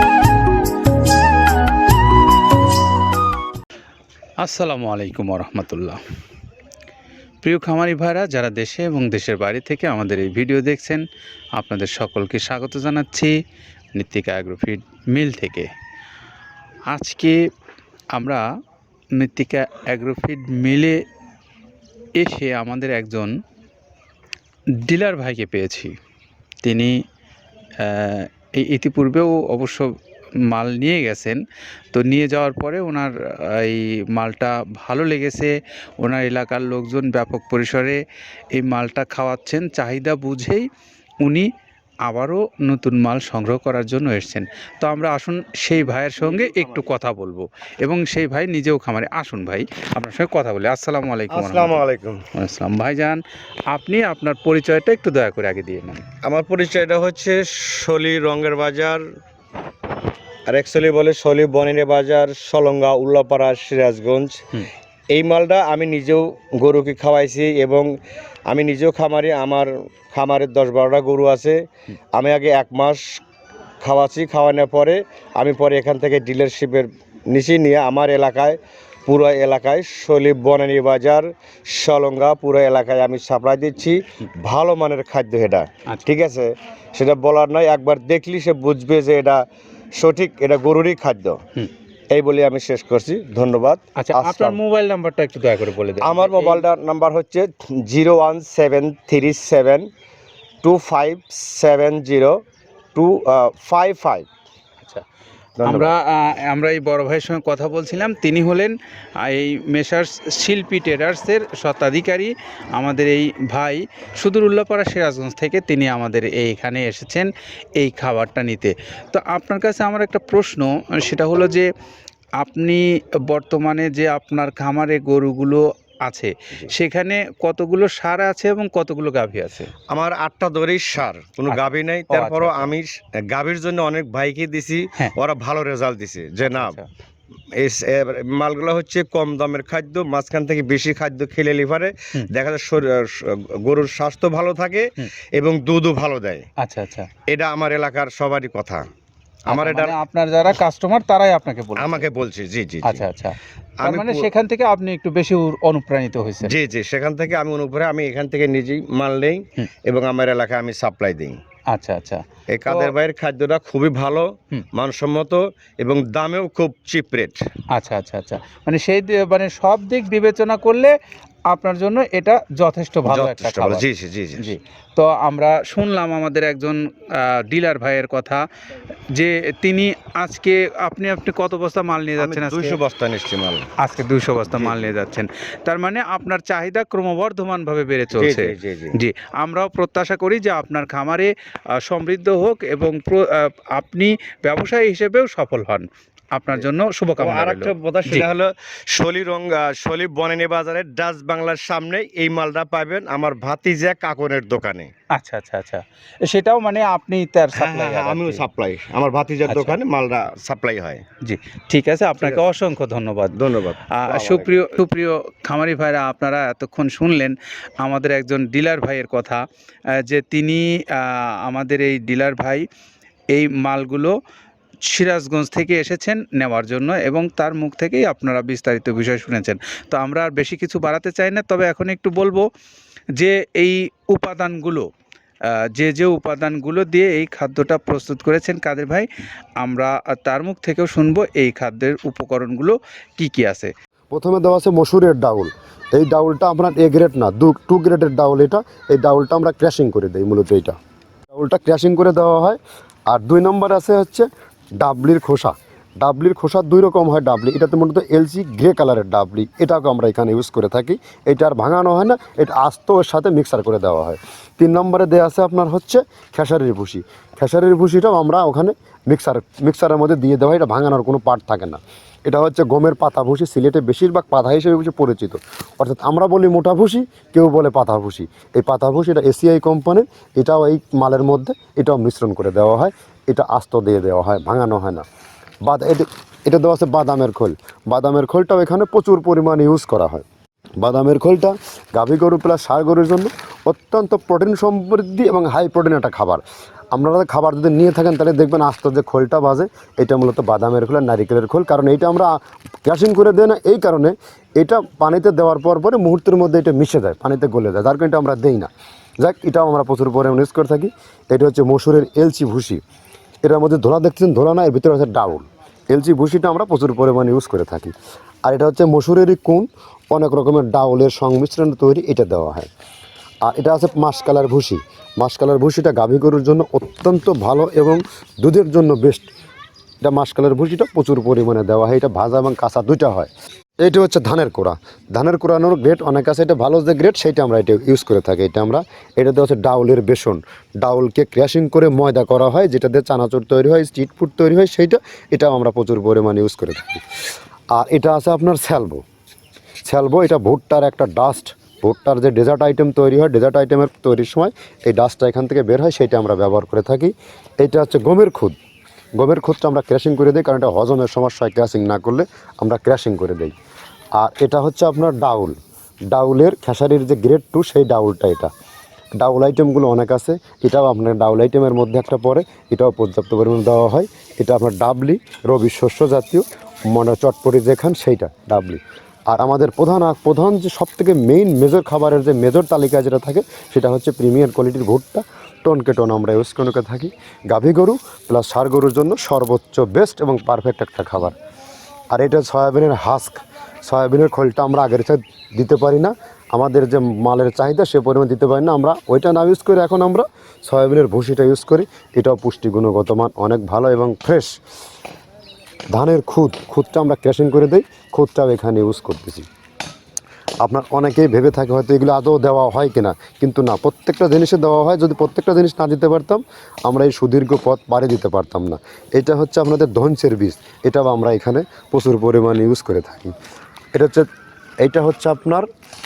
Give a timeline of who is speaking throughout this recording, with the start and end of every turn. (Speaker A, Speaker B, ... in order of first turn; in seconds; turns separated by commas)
Speaker A: 4.4-6.0, Speaker A: 7.4-11.0, Speaker A: 11.6-13.3, Speaker A: 13.9-15.7, Speaker A: 16.9-17.4, Speaker A: 18.1-18.4, Speaker A: 19.1-21.0, Speaker A: 22.2-23.3, Speaker A: 24.8-25.9, Speaker A: 26.6-26.9, Speaker A: 27.8-29.9, Speaker A: 30.5-31.4, Speaker A: 31.9-38.0, Speaker A: 38.5-40.6, Speaker A: 42.1-51.8, Speaker B: 46.2-46.9, Speaker B: 51.3-52.2, Speaker A: 52.3-56.0, Speaker B: 56.2-59.0, Speaker B: 60.5-64.4, Speaker B: 65.1-67.9, Speaker B: 68.5-71.6, Speaker B: 72.1-73.2, Speaker B: 73.8-89.4, Speaker B: 89.9-91.4, Speaker B: 92.1-94.6, Speaker A: 94.0-96.7, Speaker B: 96.0-99.9, Speaker B: 100.6-102.4, Speaker B: 102.9-104.3, Speaker B: 105.6-105.9, Speaker A: 105.6-121.7, Speaker A: 122.4-129.7, Speaker B: 129.9-136.8, Speaker A: 131.5-132.7, Speaker A: 136.4-136.8, Speaker B: 137.5-146.4, Speaker A: 146.6-147.1, Speaker B: 147.3-148.9, Speaker B: 149.5-149.9, Speaker A: 149.5-152.1, Speaker B: 151.8-153.0, Speaker A: 152.8-156.5, Speaker B: 153.8-154.3, Speaker B: 156.4-161.4, Speaker A: 161.7-162.9, Speaker B: 162.5-167.4, Speaker A: 167.7-170.9, Speaker A: 171.5-173.8, Speaker B: 173.1-174.5, Speaker A: 174.4-178.4, Speaker A: 179.1-182.8, Speaker B: 182.2-183.7, Speaker A: 183.8-198.2, Speaker B: 184.5-184.9, Speaker B: 188.2-189.0, Speaker B: 197.2-204.9, Speaker A: 205.1-208.4, Speaker B: 207.5-211.0, Speaker A: 209.5-209.8, Speaker A: 211.2-213.3, Speaker B: 213.3-214.6, Speaker A: 213.9-219.4, Speaker A: 220.0-222.6, Speaker A: 223.3-224.1, Speaker A: 224.9-232.4, Speaker A: 233.2-234.9, Speaker A: 235.7-239.1, Speaker A: 239.6-243.7, Speaker C: 244.1-250.8, Speaker C: 251.3-254.3, Speaker C: 254.8-285.0, Speaker C: 285.6-290.2, Speaker C: 290.8-296.4, Speaker C: 296.9-312.8, Speaker C: 313.4-317.9, Speaker C: 318.4-322.7, Speaker C: 323.4-329.3, Speaker C: 330.0-333.3, Speaker C: 333.8-347.0, Speaker C: 347.7-349.0, Speaker C: 349.9-358.6, Speaker C: 359.2-363.5, Speaker C: 364.1-365.6, Speaker C: 366.1-368.5, Speaker C: 369.2-391.3, Speaker C: 392.1-404.6, Speaker C: 405.9-409.4, Speaker C: 410.6-423.3, Speaker C: 423.9-424.3, Speaker C: 424.8-425.6